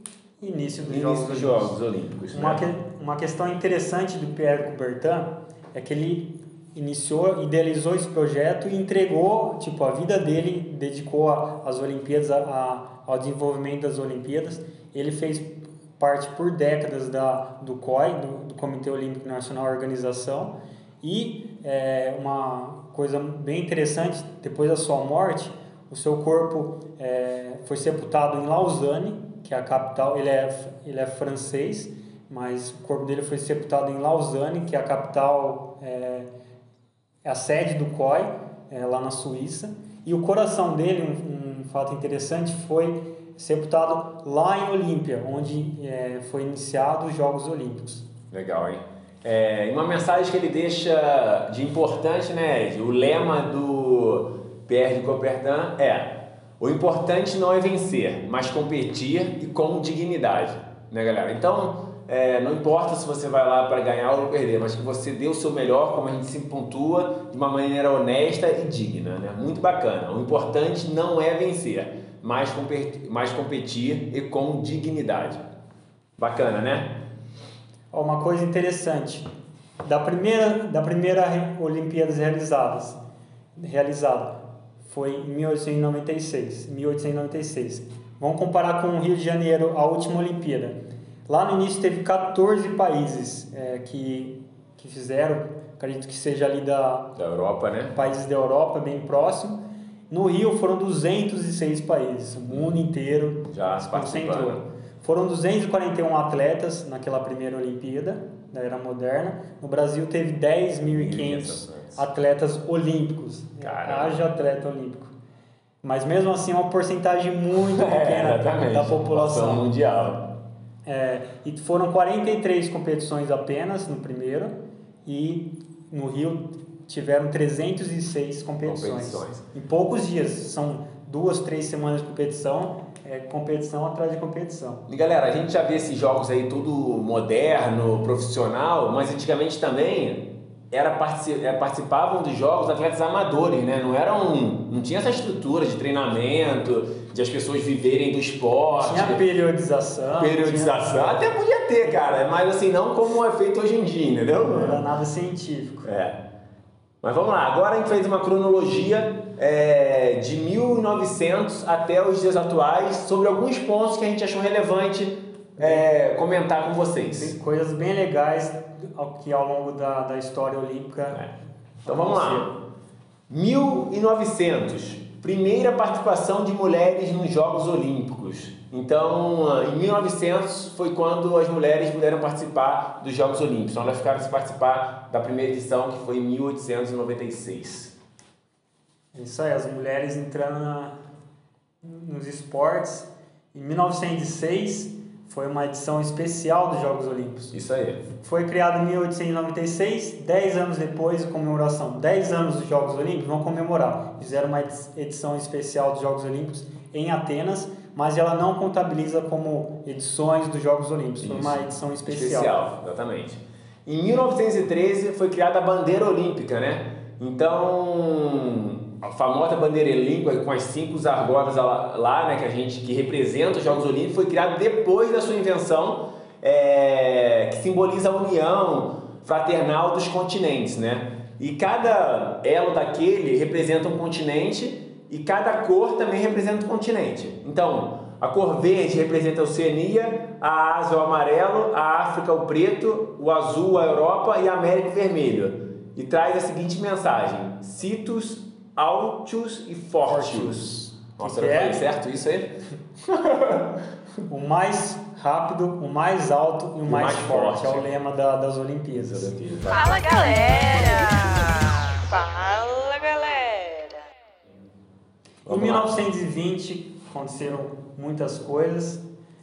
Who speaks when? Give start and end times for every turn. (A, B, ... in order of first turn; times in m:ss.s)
0:00.4-0:01.8 A
0:00.9-0:02.6 B
0:02.3-0:36.3 A
0:37.2-0:48.0 A
0:48.3-1:15.4 B
1:16.2-1:17.0 B
1:17.9-1:19.3 A
1:19.8-1:23.0 A
1:23.6-1:37.1 A
1:37.2-1:38.0 B
1:37.9-1:39.6 A
1:40.1-1:55.1 A
1:43.5-1:44.6 B
1:50.9-1:52.0 B
1:53.6-1:54.2 B
1:55.8-1:59.7 A
1:57.6-2:00.3 B
2:00.9-2:04.5 A
2:05.0-2:14.8 A
2:08.6-2:09.4 B
2:14.9-2:29.2 B
2:28.8-2:31.3 A
2:30.1-2:34.8 B
2:34.4-2:35.9 A
2:35.8-2:36.2 B
2:37.0-2:47.4 B
2:45.6-2:45.8 A
2:47.1-2:51.2 A
2:51.8-2:52.5 A
2:51.9-2:52.6 B
2:53.3-3:08.0 B
3:09.1-3:11.0 A
3:11.8-3:17.6 A
3:17.5-3:18.0 B
3:18.2-3:32.6 A
3:31.2-4:13.7 B
4:10.0-4:11.8 A
4:14.3-4:19.3 A
4:16.8-4:17.9 B
4:18.9-4:20.2 B
4:19.7-4:24.0 C
4:25.5-4:26.0 B
4:25.5-4:29.0 A